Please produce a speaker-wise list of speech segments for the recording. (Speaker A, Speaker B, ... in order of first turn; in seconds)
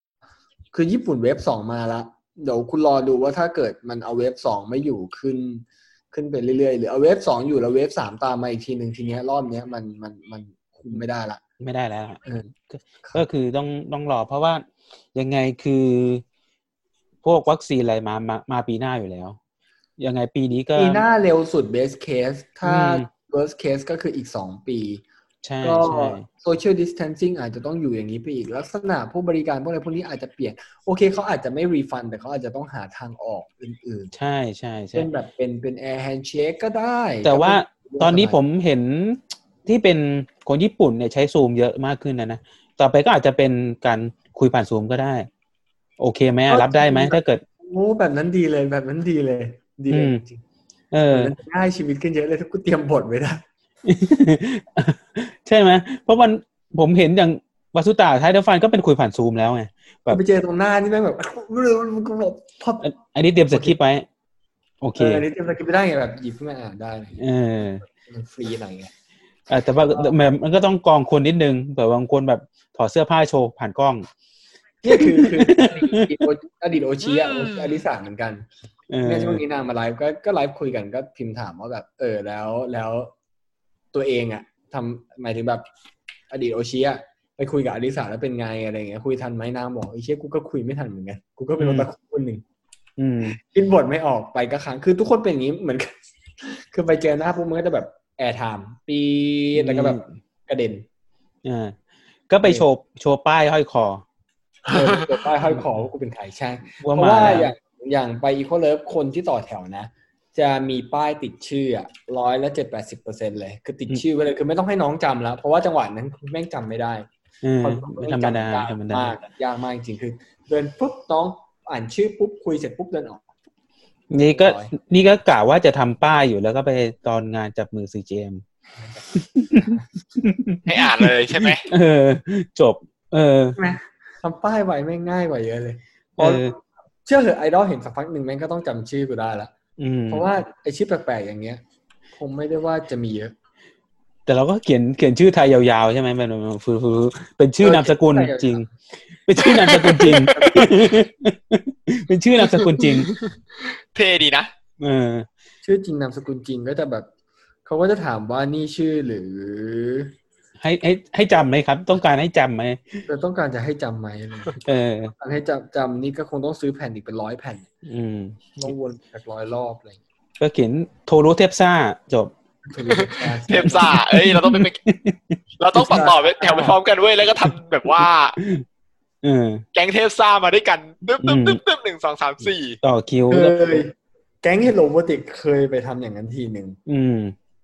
Speaker A: 0.7-11.4, 12.2-12.5, 20.7-25.0, 25.6-34.1, 34.9-38.4, 46.5-50.4, 51.1-53.4, 60.1-62.9, 63.5-63.8, 65.0-67.2, 67.8-68.9, 69.9-70.1, 74.8-78.5, 79.0-83.1, 83.9-85.7, 86.3-92.4, 93.4-95.9, 96.4-100.8, 104.7-117.1, 117.6-123.2, 124.2-124.7, 129.5-129.8, 133.6-139.5, 140.1-141.6, 142.2-143.3, 147.6-148.7, 150.3-150.7, 155.6-157.1, 157.6-160.1, 163.1-164.6, 165.1-167.7, 168.6-170.0, 172.7-173.9, 175.9-176.7, 183.3-186.8
Speaker B: 11.6-12.2, 12.7-16.2, 17.2-19.4, 20.0-21.0, 22.6-23.1, 25.4-26.2, 34.1-35.1, 37.2-45.3, 46.0-47.4, 49.9-50.2, 50.9-51.3, 53.8-60.2, 62.8-64.0, 64.8-65.2, 67.2-67.8, 69.5-74.1, 74.8-76.2, 78.9-79.4, 91.6-91.9, 93.0-93.4, 99.5-100.1, 101.4-101.8, 102.3-104.0, 106.8-107.5, 117.4-119.2, 124.1-128.4, 129.2-133.6, 136.2-136.5, 139.8-140.3, 144.2-148.6, 149.3-153.1, 154.8-155.3, 160.6-163.0, 164.6-165.1, 167.8-168.7, 170.4-172.3, 173.6-176.1, 177.9-178.6, 179.2-179.6, 181.2-181.6, 182.8-183.8, 186.9-187.3
Speaker C: 77.0-77.8, 104.7-105.0, 130.7-131.6, 149.5-150.5, 152.4-153.3, 153.9-154.5, 173.5-174.8, 175.6-178.4, 179.7-182.8